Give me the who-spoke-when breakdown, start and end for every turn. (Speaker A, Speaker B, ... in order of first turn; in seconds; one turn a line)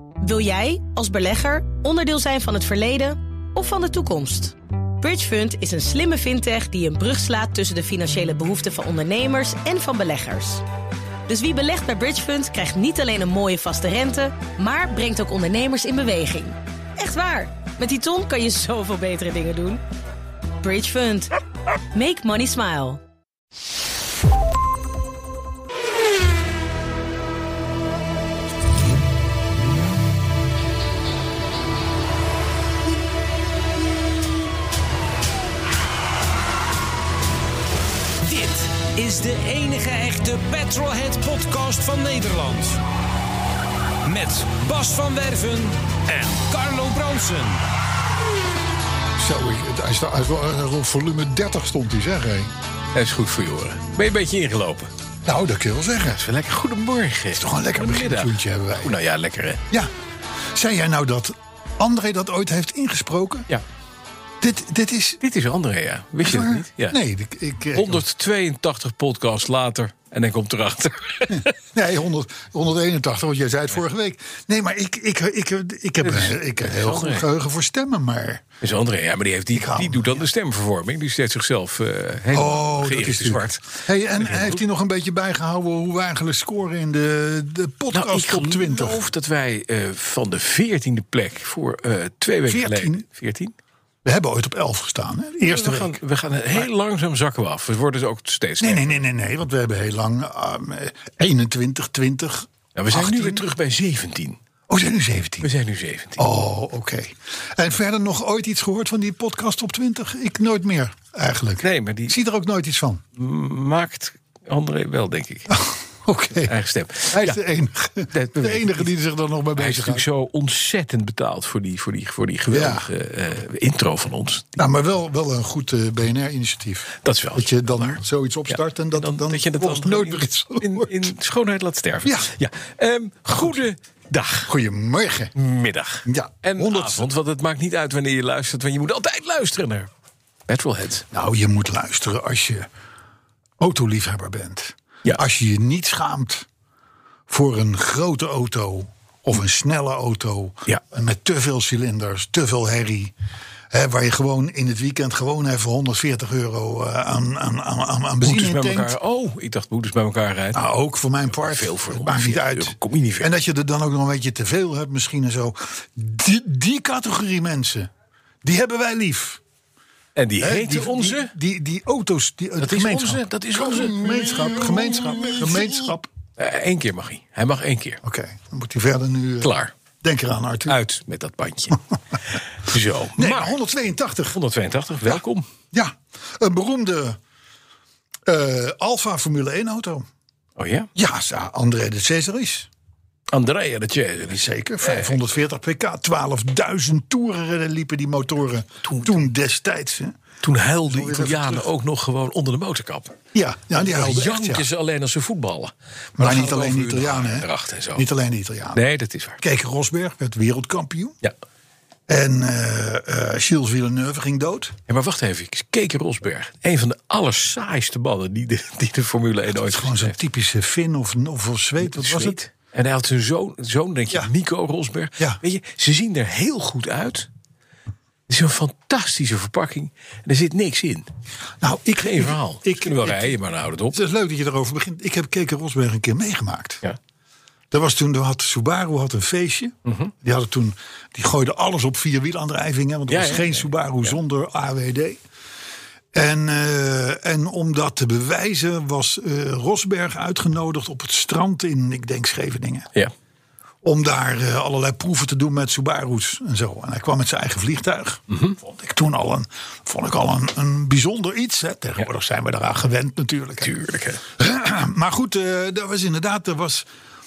Speaker A: 0.2-10.6
Speaker A: 11.3-19.8
Speaker A: 20.6-21.3
Speaker A: 21.9-23.0
Speaker B: 38.2-42.8
Speaker B: 44.0-47.6
Speaker C: 49.2-52.5
Speaker D: 52.9-54.9
Speaker C: 55.2-56.2
Speaker D: 56.1-59.6
Speaker C: 57.3-59.0
Speaker C: 60.5-63.5
Speaker C: 64.4-65.2
Speaker D: 65.2-67.0
Speaker C: 66.2-68.0
Speaker D: 67.7-71.5
Speaker C: 71.3-78.4
Speaker D: 76.0-77.3
Speaker D: 78.6-84.6
Speaker C: 79.5-80.3
Speaker C: 82.3-89.0
Speaker D: 87.9-93.5
Speaker C: 92.5-93.0
Speaker C: 94.0-96.0
Speaker D: 95.5-98.9
Speaker C: 98.6-103.5
Speaker D: 102.8-104.4
Speaker C: 104.7-105.5
Speaker D: 105.4-106.2
Speaker C: 106.2-113.0
Speaker D: 111.6-112.2
Speaker D: 113.2-115.6
Speaker C: 115.5-116.5
Speaker D: 116.4-117.4
Speaker C: 117.1-120.0
Speaker D: 118.1-118.9
Speaker D: 119.5-124.6
Speaker C: 122.5-122.9
Speaker C: 124.6-131.1
Speaker D: 127.0-128.0
Speaker D: 128.5-134.5
Speaker C: 132.0-132.3
Speaker C: 134.5-135.3
Speaker D: 135.3-139.9
Speaker C: 136.1-137.1
Speaker D: 140.5-141.1
Speaker C: 141.1-142.7
Speaker C: 143.6-146.5
Speaker C: 147.3-153.1
Speaker C: 153.7-159.0
Speaker D: 158.2-160.6
Speaker C: 160.5-167.9
Speaker D: 161.3-163.3
Speaker C: 168.4-169.4
Speaker D: 170.2-171.3
Speaker C: 170.4-176.1
Speaker D: 172.6-178.0
Speaker C: 178.0-180.8
Speaker D: 179.4-179.7
Speaker D: 180.7-181.8
Speaker D: 182.6-183.6
Speaker C: 183.2-184.4
Speaker D: 184.3-185.5
Speaker C: 185.7-187.2
Speaker C: 188.3-190.1
Speaker D: 190.6-190.9
Speaker C: 190.9-192.7
Speaker D: 193.3-195.2
Speaker C: 194.3-200.1
Speaker D: 198.9-199.2
Speaker D: 200.4-203.2
Speaker C: 200.9-201.7
Speaker C: 203.3-204.7
Speaker D: 203.8-208.1
Speaker C: 206.2-208.8
Speaker D: 208.7-209.4
Speaker C: 209.4-211.2
Speaker C: 212.1-214.8
Speaker D: 214.9-220.2
Speaker C: 219.6-222.4
Speaker D: 221.8-227.3
Speaker D: 228.3-231.1
Speaker C: 231.6-233.4
Speaker D: 232.0-234.0
Speaker C: 233.9-236.8
Speaker C: 237.7-245.2
Speaker D: 239.9-240.1
Speaker D: 243.1-244.1
Speaker C: 246.1-252.9
Speaker C: 253.8-263.7
Speaker D: 263.6-264.2
Speaker C: 264.4-266.9